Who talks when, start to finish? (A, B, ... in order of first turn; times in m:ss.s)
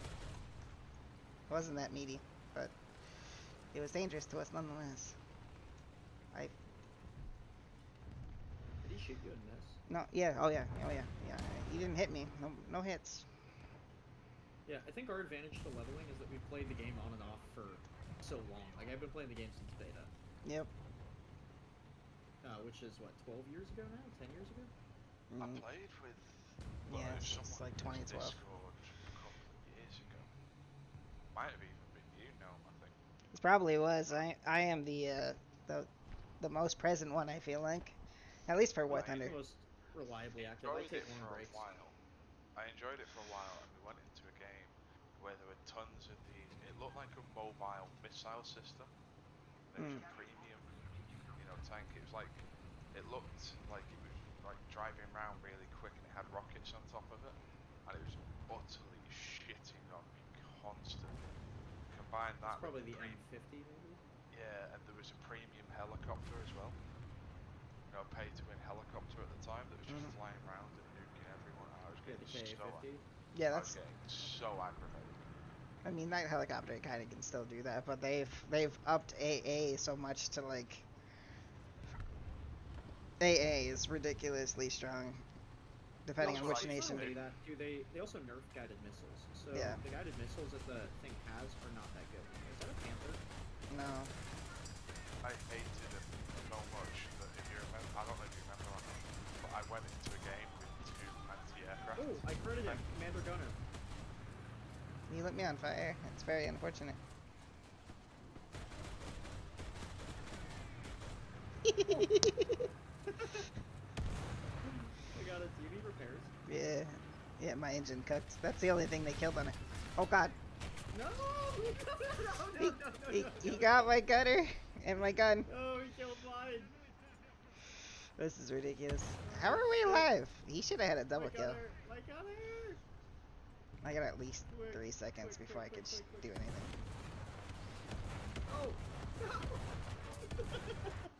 0:01.5-0:02.8 A
0:03.7-0:05.2 A
0:08.8-0:09.8 B
0:09.9-0:13.3 A
0:14.6-0:20.1 B
0:20.4-0:20.7 A
0:22.4-0:24.7 B
0:25.3-0:25.7 A
0:25.4-0:30.3 C
0:26.9-0:28.4 A
0:31.3-0:33.0 C
0:33.3-0:35.9 A
0:36.4-0:39.4 A
0:38.9-0:41.6 B
0:40.5-0:42.0 C
0:42.6-0:48.9 C
0:49.7-0:50.6 C
0:49.8-0:50.0 A
0:51.3-0:52.4 C
0:52.9-1:01.2 C
1:01.9-1:03.2 C
1:02.5-1:04.0 B
1:04.3-1:06.8 C
1:07.9-1:12.8 C
1:12.0-1:13.0 B
1:13.3-1:13.8 A
1:13.5-1:15.2 C
1:15.8-1:20.9 A
1:23.2-1:25.2 A
1:26.0-1:27.1 A
1:26.2-1:33.2 B
1:26.2-1:27.2 C
1:29.5-1:29.8 A
1:33.7-1:34.1 A
1:35.2-1:42.9 C
1:42.0-1:43.6 B
1:45.1-1:47.0 A
1:51.6-1:52.6 A
1:51.8-1:52.2 B
1:53.0-1:53.5 B
1:54.6-1:56.3 B
1:56.4-2:00.3 A
2:00.9-2:04.0 B
2:02.6-2:05.5 A
2:05.5-2:06.8 B
2:08.2-2:11.6 A
2:09.2-2:10.1 B
2:11.1-2:12.8 B
2:13.8-2:16.7 A
2:14.5-2:16.4 B
2:18.5-2:21.0 B